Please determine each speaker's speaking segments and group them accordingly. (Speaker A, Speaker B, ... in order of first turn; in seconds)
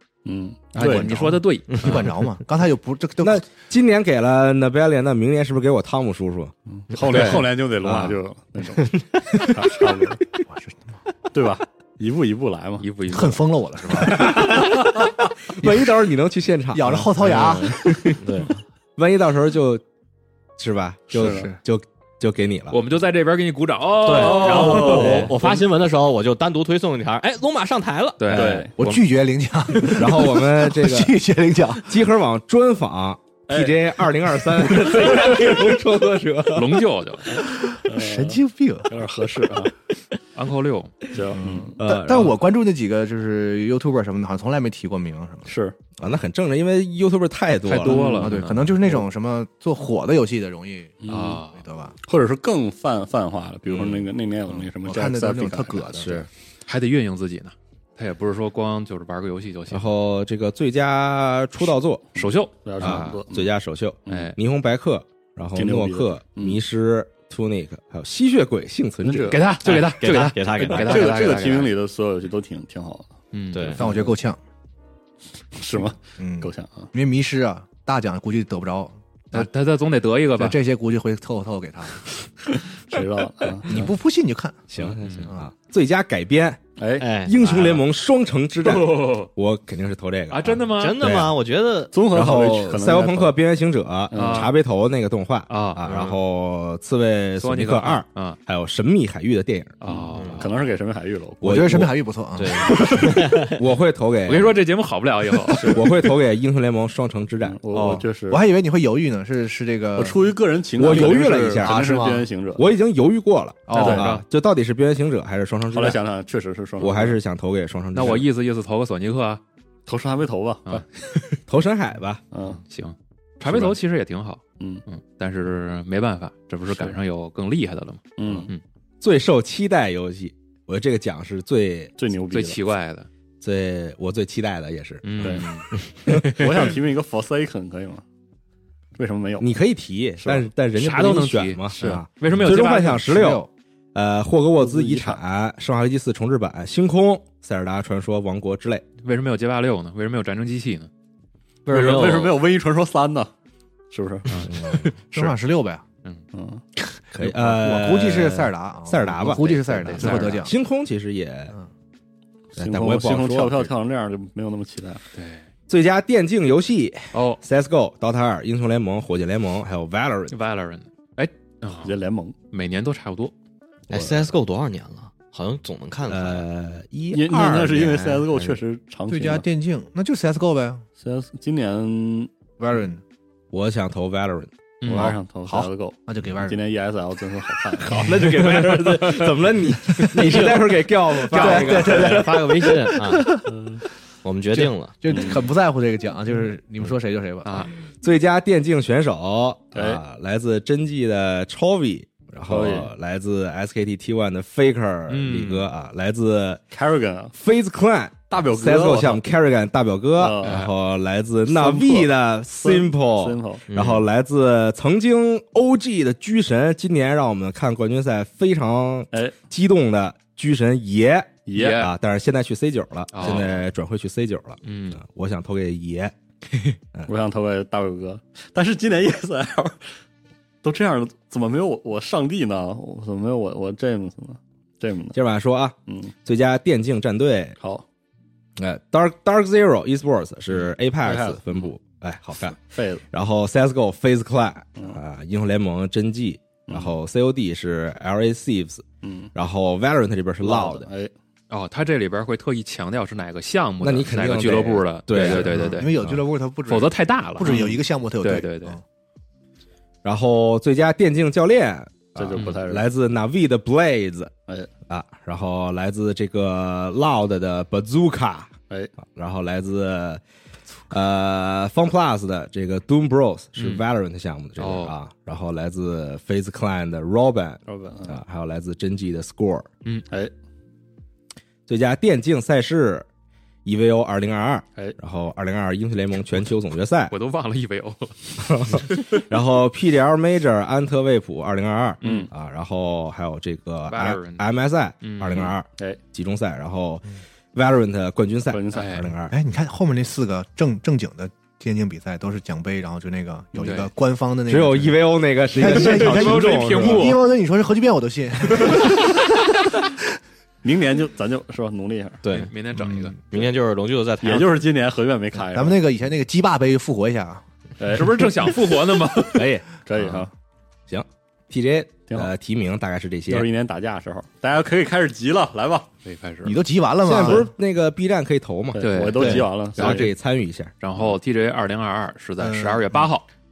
Speaker A: 0.2-1.2, 6.8-10.2, 11.3-12.9, 21.1-21.5, 24.4-25.4, 28.3-28.8, 33.5-33.8, 34.8-35.4, 37.9-39.7, 41.1-41.8, 45.5-45.8, 47.9-49.0, 51.0-51.4, 52.0-56.1, 62.2-63.5, 64.1-64.3, 65.6-66.6, 69.0-69.4, 70.7-73.1, 73.8-74.1, 75.5-76.9, 82.7-83.9, 86.8-87.1, 91.9-93.3, 94.1-94.5, 99.9-101.8, 105.5-105.8, 107.4-108.5, 110.0-112.7, 113.7-114.1, 115.7-117.2, 119.9-120.8, 122.3-122.6, 128.2-128.5, 132.0-132.6, 135.2-135.5, 136.1-138.0, 139.0-139.5, 140.2-140.5, 141.8-142.1, 144.6-145.2, 151.7-153.3, 153.9-154.5, 156.3-156.6, 162.6-165.0, 171.8-172.3, 173.9-174.3, 177.1-179.5, 181.0-182.3, 184.8-188.2, 193.5-193.8, 195.1-195.5, 199.7-200.0, 202.5-202.9, 206.7-207.3, 208.3-209.2, 210.2-210.6, 211.5-213.7, 221.5-221.8, 227.1-229.9, 230.6-235.2, 235.9-236.1, 237.6-237.8, 241.0-241.4, 242.7-243.0, 246.7-246.9, 249.0-249.3, 250.4-251.1, 262.2-262.9, 277.7-278.2, 292.0-292.3, 298.5-299.0, 310.6-312.2, 314.2-315.8, 317.8-318.3, 319.9-320.3, 322.1-322.3, 323.3-325.9, 328.8-330.1
Speaker B: 0.7-2.2, 12.8-14.3, 22.7-25.6, 28.2-29.1, 36.5-37.4, 40.4-41.1, 47.6-48.8, 51.1-51.6, 56.7-59.9, 62.2-63.2, 64.1-64.3, 69.3-71.7, 73.3-73.8, 79.3-80.6, 84.8-85.3, 88.6-89.3, 90.3-91.2, 94.1-94.5, 95.5-96.1, 97.4-98.4, 99.8-100.5, 104.3-105.8, 113.7-114.2, 117.9-119.4, 122.6-128.6, 132.3-133.1, 135.0-135.7, 140.8-143.4, 149.0-150.9, 154.3-154.5, 159.8-160.5, 165.1-165.5, 167.1-167.4, 170.3-172.0, 172.5-173.3, 184.8-185.2, 191.3-191.9, 197.4-197.7, 205.1-205.7, 210.4-210.7, 221.6-221.9, 223.1-223.7, 224.6-225.0, 251.5-255.9, 256.7-258.8, 273.6-273.8, 274.6-274.9, 287.1-289.1, 292.0-292.3, 293.9-294.4, 295.0-295.5, 298.7-299.1, 303.6-303.9, 305.6-307.2, 312.3-313.2, 317.9-319.5, 326.1-326.6, 328.8-330.1, 330.8-333.3
Speaker C: 0.8-3.5, 10.5-11.0, 13.1-14.8, 16.7-18.1, 21.2-21.6, 28.8-32.0, 37.7-39.1, 41.4-45.5, 47.9-52.0, 54.5-56.3, 73.8-74.4, 76.2-79.5, 80.4-82.1, 83.7-84.7, 101.4-103.1, 108.3-112.3, 142.4-143.5, 155.1-155.8, 157.1-160.5, 179.1-180.9, 182.6-183.0, 184.9-186.6, 191.3-193.5, 194.5-197.7, 255.2-258.8, 299.3-305.0, 305.5-309.2, 312.8-313.1, 315.5-317.4, 326.4-327.5, 332.4-333.1
Speaker D: 3.2-6.5, 7.8-8.2, 14.1-14.9, 15.5-18.2, 19.0-19.8, 20.6-22.8, 29.9-31.2, 31.9-36.9, 41.8-42.4, 46.0-48.2, 56.0-56.3, 59.7-62.0, 62.8-69.4, 84.7-86.7, 87.2-91.3, 92.1-99.8, 101.4-101.9, 103.5-104.6, 105.7-108.0, 110.8-111.8, 112.6-116.0, 116.8-118.3, 121.2-122.2, 129.0-131.9, 133.4-135.5, 136.1-136.7, 139.4-148.8, 154.5-154.9, 157.2-161.6, 162.6-163.7, 165.7-170.4, 176.1-178.3, 183.5-184.5, 187.8-192.3, 198.0-206.6, 207.4-227.1, 235.1-237.6, 238.6-242.6, 243.1-250.9, 253.8-256.2, 260.0-264.3, 264.9-270.2, 270.9-279.7, 281.7-283.1, 283.6-287.1, 288.4-299.4, 304.5-307.2, 319.3-319.8, 320.9-323.5, 327.0-330.7
Speaker E: 7.1-7.4, 17.2-17.6, 18.2-18.6, 24.0-28.7, 69.6-71.4, 73.5-73.9, 87.0-87.9, 90.8-92.1, 95.9-96.2, 100.1-100.5, 102.3-103.6, 151.7-152.5, 173.9-176.4, 178.3-178.6, 188.5-189.2, 190.1-190.8, 191.3-193.4, 194.2-195.0, 213.7-214.1, 312.2-312.5, 313.3-314.6